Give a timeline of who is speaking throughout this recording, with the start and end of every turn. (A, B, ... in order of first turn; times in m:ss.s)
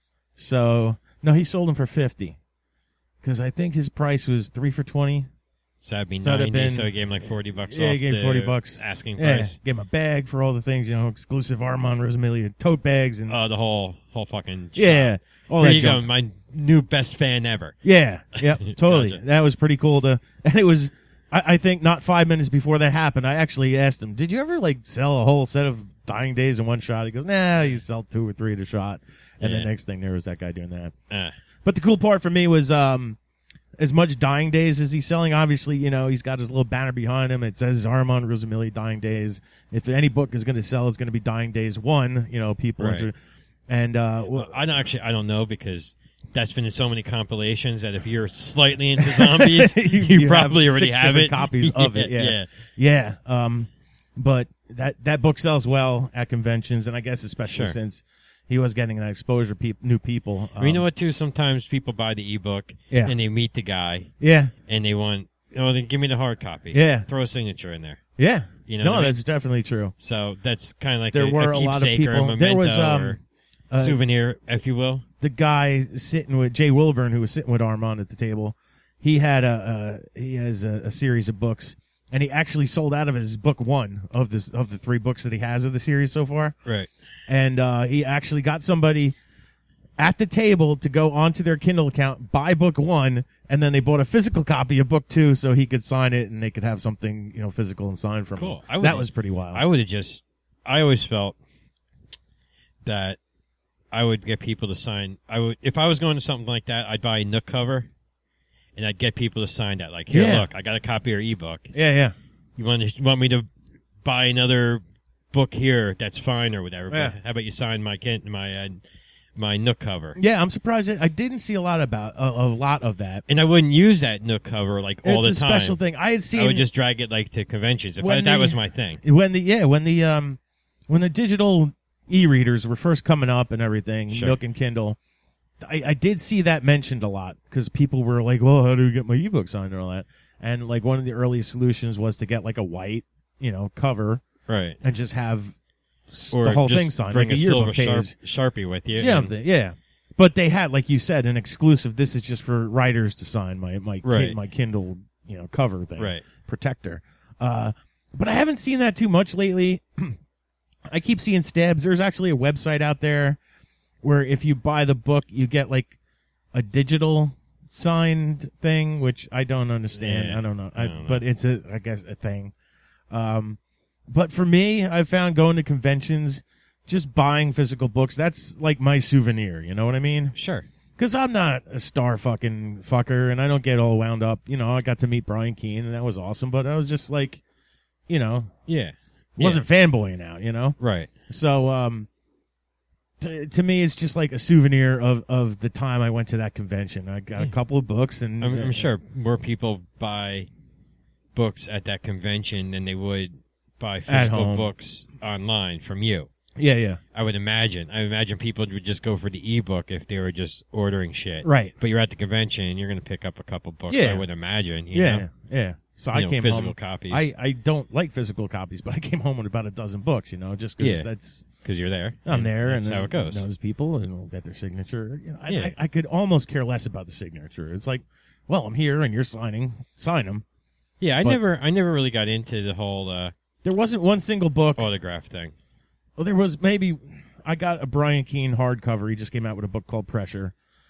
0:00.4-0:02.4 A
0:03.2-0:05.3 A
0:05.8-0:09.6 B
0:06.2-0:06.9 A
0:07.7-0:13.4 A
0:13.3-0:17.8 B
0:14.8-0:16.0 A
0:17.8-0:30.9 A
0:18.4-0:19.2 B
0:29.4-0:29.7 B
0:31.1-0:31.4 B
0:31.6-0:33.2 A
0:33.8-0:43.1 A
0:42.8-0:43.1 B
0:43.7-0:44.6 A
0:44.3-0:52.5 B
0:49.0-1:00.8 A
0:57.4-0:57.8 B
1:00.6-1:04.1 B
1:02.9-1:03.1 A
1:04.2-1:04.5 A
1:04.6-1:08.0 B
1:06.7-1:07.1 A
1:08.2-1:09.9 A
1:08.6-1:09.2 B
1:10.0-1:13.2 B
1:11.1-1:13.2 A
1:13.7-1:14.0 A
1:13.8-1:15.0 B
1:15.2-1:26.6 A
1:27.3-1:29.2 A
1:30.0-1:39.6 A
1:38.4-1:41.4 B
1:42.8-1:43.2 B
1:43.9-1:47.9 B
1:48.8-1:51.7 B
1:50.1-1:50.5 A
1:51.7-1:52.1 A
1:52.6-1:53.5 B
1:54.0-1:58.8 B
1:56.9-1:57.1 A
1:59.4-2:00.2 B
2:00.2-2:03.2 A
2:03.3-2:05.8 B
2:05.0-2:06.7 A
2:06.3-2:09.0 B
2:08.0-2:15.0 A
2:14.1-2:14.4 B
2:15.6-2:24.2 A
2:24.5-2:24.8 B
2:24.8-2:25.5 A
2:26.1-2:28.1 A
2:26.3-2:29.3 B
2:28.9-2:40.2 A
2:34.0-2:34.4 B
2:36.0-2:36.2 B
2:40.8-2:43.4 A
2:44.0-2:45.9 A
2:46.5-2:52.5 A
2:49.9-2:51.2 B
2:53.1-3:00.3 A
3:00.3-3:00.7 B
3:01.0-3:07.4 A
3:08.1-3:08.5 A
3:08.7-3:09.6 B
3:09.4-3:12.1 A
3:10.8-3:11.1 B
3:13.2-3:18.9 A
3:18.4-3:20.5 B
3:21.3-3:26.3 B
3:24.1-3:24.7 A
3:26.6-3:27.0 A
3:27.1-3:35.3 B
3:31.4-3:31.7 A
3:33.9-3:34.2 A
3:34.9-3:41.4 A
3:36.1-3:37.3 B
3:40.8-3:41.1 B
3:41.6-3:43.4 B
3:42.2-3:50.4 A
3:45.5-3:45.7 B
3:51.0-3:53.3 B
3:53.6-3:54.9 A
3:54.8-3:55.5 B
3:56.2-4:00.5 A